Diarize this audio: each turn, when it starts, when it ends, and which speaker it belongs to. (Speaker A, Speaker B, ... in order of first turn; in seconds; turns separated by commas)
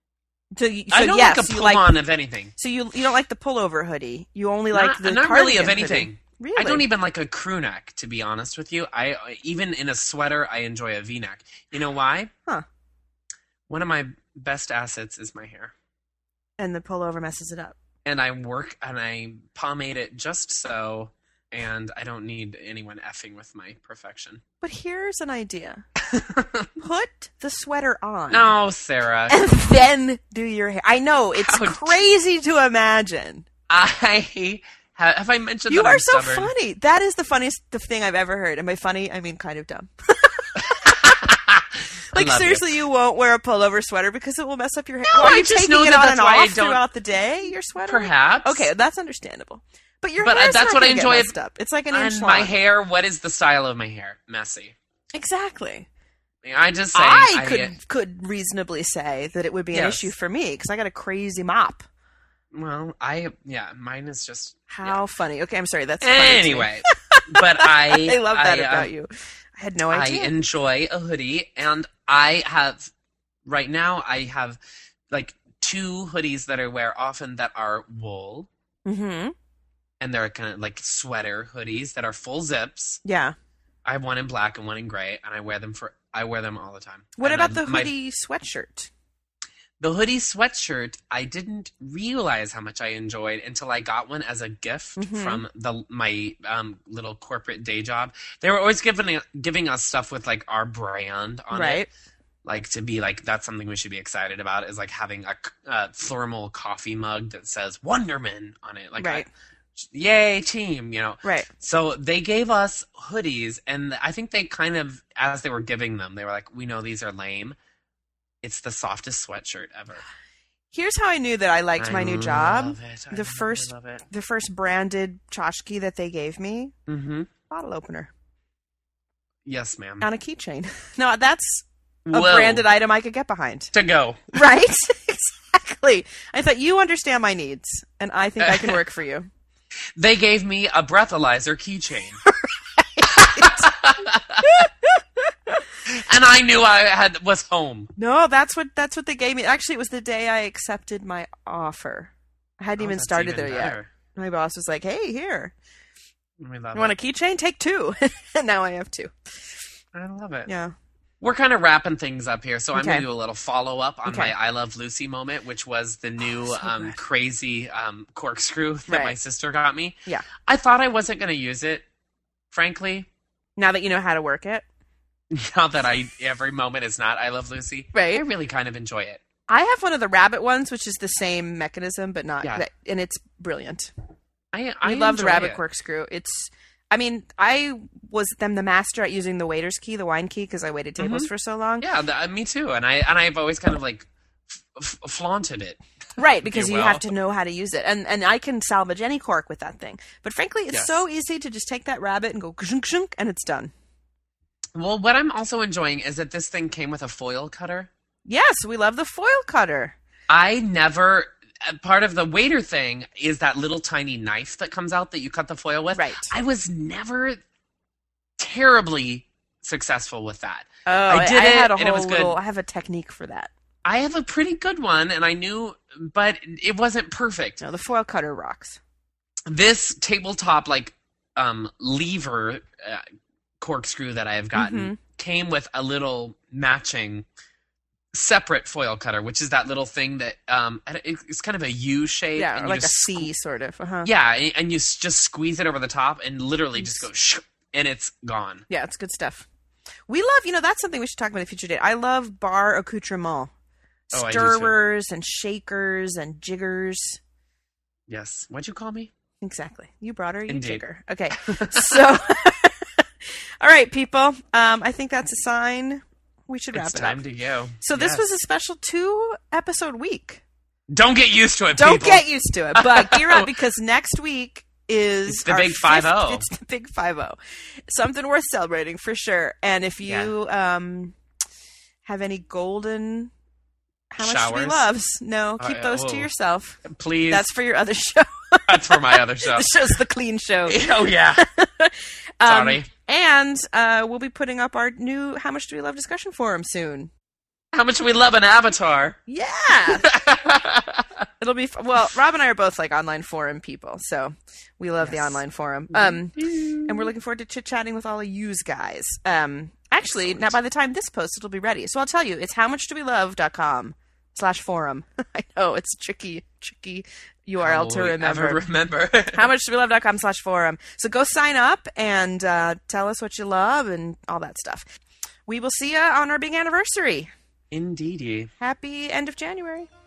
Speaker A: 0.6-1.9, Speaker B: 0.9-2.5, Speaker A: 2.5-6.8, Speaker B: 4.7-12.3, Speaker B: 13.7-15.7, Speaker A: 16.6-17.7, Speaker B: 18.0-24.4, Speaker A: 24.6-25.8, Speaker B: 26.0-26.7, Speaker A: 26.8-28.5, Speaker B: 28.3-29.4, Speaker A: 29.3-33.5, Speaker B: 31.4-32.0, Speaker B: 33.7-36.5, Speaker A: 35.7-41.1, Speaker B: 40.7-42.7, Speaker A: 42.1-52.5, Speaker B: 45.0-46.8, Speaker B: 47.8-48.7, Speaker B: 50.2-51.3, Speaker B: 51.9-54.7, Speaker A: 55.1-55.9, Speaker B: 56.4-57.7, Speaker A: 56.9-61.9, Speaker B: 59.7-60.1, Speaker B: 62.5-64.9, Speaker A: 64.7-70.3, Speaker B: 66.0-68.9, Speaker B: 69.9-72.9, Speaker B: 73.4-74.6, Speaker B: 75.1-78.5, Speaker A: 78.8-79.3, Speaker B: 80.0-83.0, Speaker A: 83.0-83.3, Speaker B: 83.8-87.9, Speaker A: 87.2-88.9, Speaker B: 89.8-101.9, Speaker A: 95.0-95.4, Speaker A: 101.5-101.9, Speaker B: 102.4-117.5, Speaker A: 109.0-109.3, Speaker A: 111.2-111.5, Speaker B: 118.4-120.0, Speaker A: 120.7-126.7, Speaker B: 121.8-124.0, Speaker B: 126.9-127.3, Speaker A: 127.5-128.1, Speaker B: 129.4-130.1, Speaker A: 130.0-133.7, Speaker B: 132.1-132.6, Speaker B: 133.7-134.3, Speaker A: 134.3-139.3, Speaker B: 138.4-138.8, Speaker B: 139.9-142.2, Speaker A: 142.8-143.7, Speaker B: 143.1-144.7, Speaker A: 144.4-145.6, Speaker B: 145.8-147.9, Speaker A: 148.0-155.5, Speaker B: 152.8-153.9, Speaker B: 156.4-156.9, Speaker A: 156.7-159.1, Speaker B: 159.9-160.5, Speaker A: 160.4-160.7, Speaker B: 161.2-171.8, Speaker A: 162.7-163.1, Speaker A: 164.1-164.3, Speaker A: 166.3-166.9, Speaker A: 168.9-169.2, Speaker B: 172.5-173.1, Speaker A: 173.6-174.6, Speaker B: 175.3-179.2, Speaker A: 177.9-178.2, Speaker A: 179.5-183.9, Speaker B: 184.5-185.6, Speaker A: 184.8-191.8, Speaker B: 191.0-195.8, Speaker A: 196.2-203.7, Speaker B: 196.4-197.1, Speaker B: 200.7-201.0, Speaker B: 204.7-207.9, Speaker A: 208.2-209.9, Speaker B: 210.3-217.4, Speaker A: 215.9-216.3, Speaker B: 218.4-222.3, Speaker A: 220.8-223.5, Speaker B: 223.8-227.6, Speaker A: 227.6-228.8, Speaker B: 229.5-233.0, Speaker B: 233.6-237.2, Speaker A: 234.5-235.0, Speaker B: 238.1-243.3, Speaker A: 242.3-244.1, Speaker B: 244.0-248.6, Speaker A: 246.8-247.1, Speaker A: 248.7-249.4, Speaker A: 250.1-253.5, Speaker A: 254.1-257.2, Speaker B: 254.1-254.8, Speaker B: 258.1-259.1, Speaker A: 259.4-267.2, Speaker B: 260.5-260.8, Speaker B: 261.4-262.1, Speaker B: 266.7-268.2, Speaker A: 267.8-270.4, Speaker B: 270.9-273.5, Speaker A: 271.7-277.4, Speaker B: 275.3-276.4, Speaker A: 277.9-281.1, Speaker B: 280.0-280.3, Speaker A: 282.0-283.3, Speaker A: 284.1-290.8, Speaker B: 284.2-284.9, Speaker B: 285.6-286.3, Speaker B: 286.8-287.5, Speaker B: 288.7-289.7, Speaker B: 290.6-291.4, Speaker A: 291.4-297.1, Speaker B: 292.4-292.9, Speaker B: 297.7-299.2, Speaker A: 299.3-300.1, Speaker B: 299.9-301.2, Speaker A: 301.4-318.6, Speaker B: 305.0-305.4, Speaker B: 305.9-307.1, Speaker B: 310.1-310.5, Speaker B: 317.6-319.5, Speaker A: 319.3-324.8, Speaker A: 325.5-327.3, Speaker B: 327.7-328.5, Speaker A: 328.6-329.9